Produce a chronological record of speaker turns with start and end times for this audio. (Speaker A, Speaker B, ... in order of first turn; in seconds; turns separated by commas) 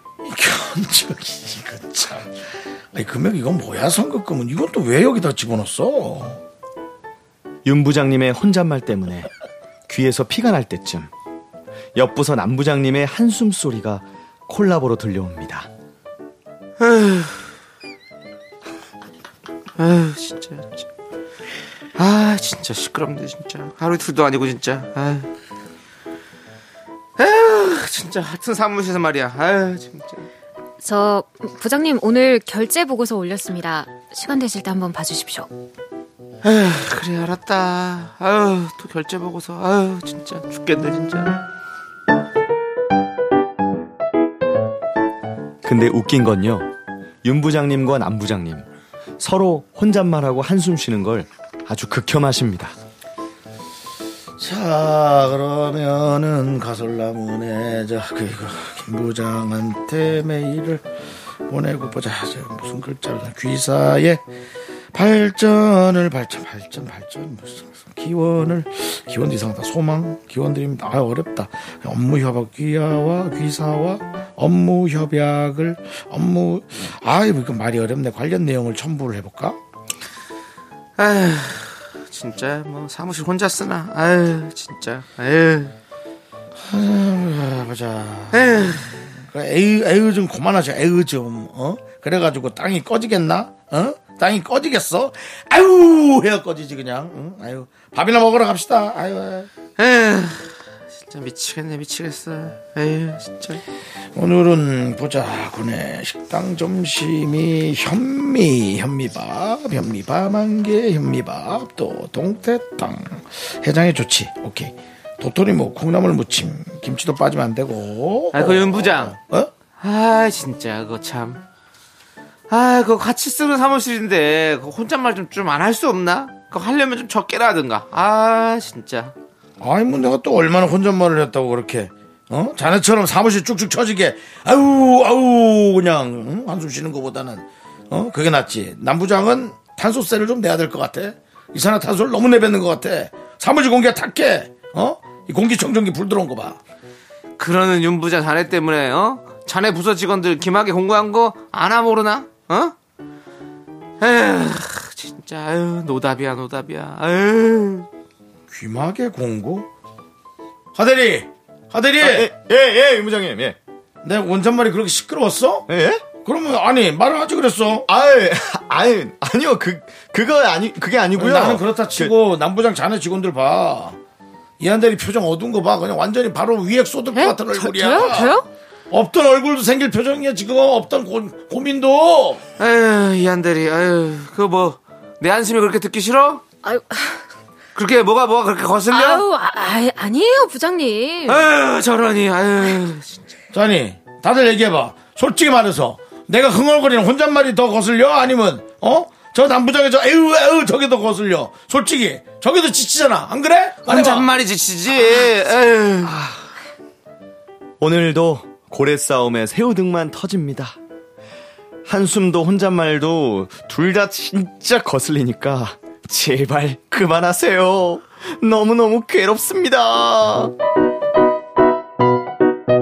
Speaker A: 0.2-6.4, Speaker B: 7.6-9.3, Speaker B: 9.9-11.1, Speaker B: 11.9-15.7, Speaker C: 16.8-17.4, Speaker C: 19.8-20.8, Speaker C: 21.9-25.3, Speaker C: 27.2-30.3, Speaker D: 30.8-35.5, Speaker C: 36.4-41.4, Speaker B: 45.6-46.7, Speaker B: 47.2-48.6, Speaker B: 49.2-52.8, Speaker A: 54.4-60.9, Speaker A: 61.5-64.2, Speaker A: 64.9-79.6, Speaker C: 81.0-85.7, Speaker A: 86.6-99.5, Speaker C: 88.3-89.0, Speaker C: 99.8-103.6, Speaker A: 104.1-119.5, Speaker C: 118.3-119.2, Speaker C: 119.8-121.4, Speaker C: 122.5-129.1, Speaker A: 129.6-146.6, Speaker C: 147.4-152.7, Speaker C: 154.0-157.9, Speaker A: 158.5-159.7, Speaker A: 160.7-162.3, Speaker B: 162.0-163.6, Speaker A: 164.0-165.7, Speaker B: 165.7-166.0, Speaker A: 166.2-167.9, Speaker B: 167.9-172.1, Speaker A: 171.2-174.0, Speaker A: 174.6-178.3, Speaker D: 177.1-178.5, Speaker A: 178.9-182.4, Speaker C: 182.6-186.4, Speaker D: 186.6-187.2, Speaker C: 187.7-189.2, Speaker D: 188.9-191.4, Speaker C: 191.2-193.2, Speaker A: 193.5-204.3, Speaker C: 203.9-206.1, Speaker B: 206.0-206.4, Speaker B: 207.8-210.8, Speaker B: 211.8-220.5